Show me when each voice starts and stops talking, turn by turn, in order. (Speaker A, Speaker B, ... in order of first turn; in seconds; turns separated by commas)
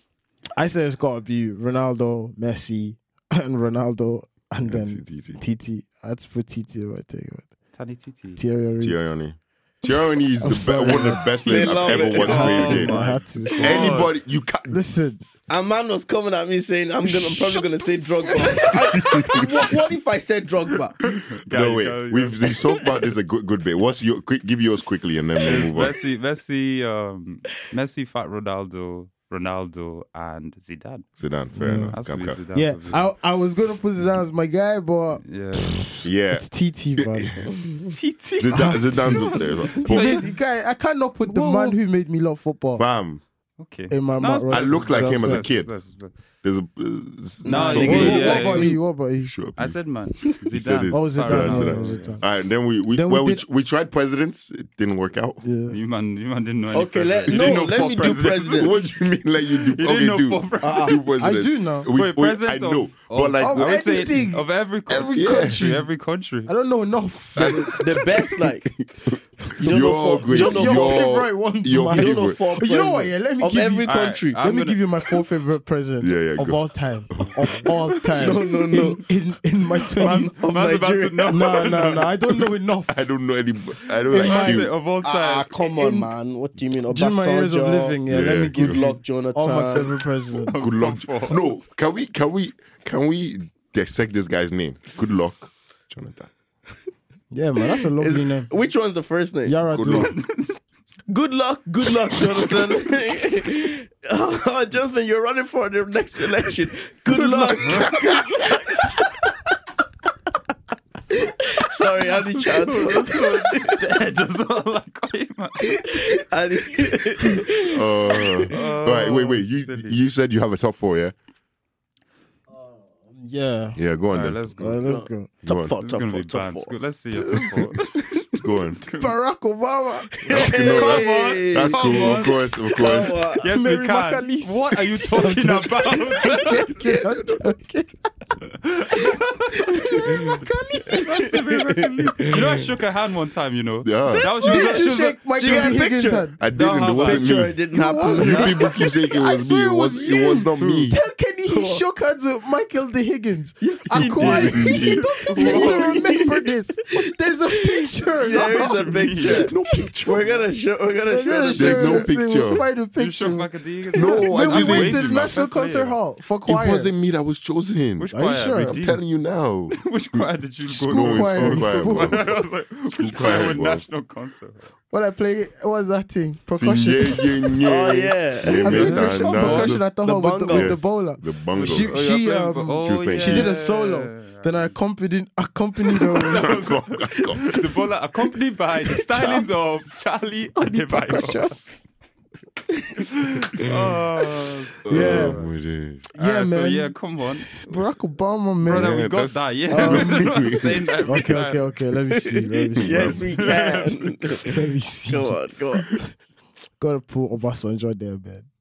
Speaker A: 0.6-7.5, Speaker B: 4.6-5.4, Speaker C: 7.7-8.4, Speaker A: 8.3-8.9, Speaker B: 8.8-13.0, Speaker A: 10.4-11.5, Speaker D: 11.4-13.0, Speaker C: 11.5-14.1, Speaker A: 12.1-14.1, Speaker B: 13.6-14.8, Speaker A: 14.7-15.2, Speaker D: 15.5-21.0, Speaker A: 17.0-19.4, Speaker B: 18.9-19.4, Speaker C: 21.1-22.8, Speaker B: 21.5-25.9, Speaker C: 25.4-31.1, Speaker D: 25.6-25.9, Speaker B: 31.2-32.4, Speaker A: 31.6-32.0, Speaker C: 31.9-33.1, Speaker A: 32.5-37.5, Speaker C: 35.2-35.9, Speaker B: 36.0-36.5, Speaker B: 37.0-37.5, Speaker C: 37.9-40.3, Speaker B: 38.4-40.2, Speaker A: 38.5-42.8, Speaker C: 41.3-41.8, Speaker B: 42.8-43.2, Speaker C: 43.6-46.1, Speaker A: 43.9-45.5, Speaker B: 44.5-45.7, Speaker B: 46.4-48.7, Speaker D: 47.4-48.8, Speaker C: 47.4-48.8, Speaker A: 47.5-49.3, Speaker B: 49.2-49.8, Speaker C: 49.5-52.2, Speaker B: 50.5-55.4, Speaker A: 50.9-52.2, Speaker A: 52.9-53.4, Speaker A: 55.4-55.8, Speaker C: 55.7-59.0, Speaker D: 56.7-58.7, Speaker B: 57.3-63.9, Speaker C: 59.5-61.0, Speaker D: 60.6-61.0, Speaker A: 61.2-61.9, Speaker C: 61.9-66.5, Speaker A: 63.4-65.9, Speaker B: 65.1-65.7, Speaker A: 66.5-67.8, Speaker B: 67.3-67.9, Speaker D: 67.6-68.7, Speaker B: 68.7-72.4, Speaker D: 69.6-71.1, Speaker A: 70.2-80.3, Speaker D: 71.8-74.4, Speaker C: 73.8-74.8, Speaker B: 76.0-77.7, Speaker C: 77.2-77.7, Speaker D: 78.1-79.0, Speaker C: 80.0-82.4, Speaker D: 80.0-81.8, Speaker A: 81.3-82.9, Speaker B: 82.9-84.7, Speaker A: 84.1-84.7, Speaker C: 84.1-86.0, Speaker D: 85.0-88.0, Speaker A: 86.9-90.5, Speaker B: 88.1-88.8, Speaker D: 88.5-90.0, Speaker C: 90.3-91.4, Speaker B: 90.6-96.3, Speaker A: 97.3-98.5, Speaker D: 98.0-99.5, Speaker A: 99.4-100.1, Speaker B: 99.7-100.1, Speaker C: 99.8-100.6, Speaker D: 101.1-109.0, Speaker C: 102.1-102.5, Speaker C: 107.5-108.5, Speaker D: 111.1-113.8, Speaker C: 112.1-116.2, Speaker D: 115.8-118.2, Speaker B: 117.7-121.1, Speaker C: 118.5-120.0, Speaker A: 123.1-123.8, Speaker B: 123.8-124.4, Speaker C: 124.1-124.8, Speaker A: 124.6-125.3, Speaker D: 124.8-126.7, Speaker B: 125.4-125.7, Speaker C: 125.8-129.1, Speaker A: 127.2-127.7, Speaker B: 128.4-128.8, Speaker A: 128.9-130.5, Speaker D: 130.2-133.5, Speaker B: 130.3-133.2, Speaker C: 130.3-136.9, Speaker A: 133.4-138.1, Speaker C: 138.5-147.5, Speaker A: 138.9-141.3, Speaker D: 141.1-142.6, Speaker B: 143.8-144.3, Speaker A: 144.1-146.4, Speaker D: 144.4-146.3, Speaker B: 146.4-147.6, Speaker D: 147.0-148.6, Speaker A: 147.7-158.9, Speaker C: 148.1-148.5, Speaker B: 148.1-151.0, Speaker C: 150.6-150.9, Speaker D: 151.4-151.8, Speaker D: 153.6-156.5, Speaker B: 153.9-155.7, Speaker C: 155.3-156.1, Speaker D: 157.5-162.1, Speaker C: 158.4-159.5, Speaker B: 159.2-160.4, Speaker A: 161.1-166.9, Speaker B: 161.6-162.6, Speaker C: 163.0-165.9, Speaker B: 163.9-165.3, Speaker B: 166.4-172.3, Speaker C: 168.0-169.0, Speaker A: 168.1-168.8, Speaker C: 169.7-174.7, Speaker A: 170.7-172.4, Speaker B: 172.9-173.8, Speaker A: 174.9-177.6, Speaker B: 176.6-179.8, Speaker D: 177.6-178.8, Speaker A: 178.6-186.6, Speaker C: 178.6-179.8, Speaker D: 180.0-180.8, Speaker B: 180.5-182.0, Speaker C: 181.6-184.7, Speaker B: 182.8-183.5, Speaker C: 185.9-191.5, Speaker B: 186.3-187.5, Speaker A: 189.0-189.5, Speaker A: 190.6-191.6, Speaker C: 193.3-195.5, Speaker B: 194.8-196.1, Speaker A: 194.9-195.4, Speaker A: 196.1-196.9, Speaker C: 196.2-197.8, Speaker A: 197.5-199.0, Speaker C: 198.6-201.6, Speaker B: 198.7-200.9, Speaker A: 199.7-203.4, Speaker D: 202.1-205.9, Speaker B: 202.8-203.2, Speaker C: 203.3-204.3, Speaker A: 204.4-206.0, Speaker A: 206.8-208.5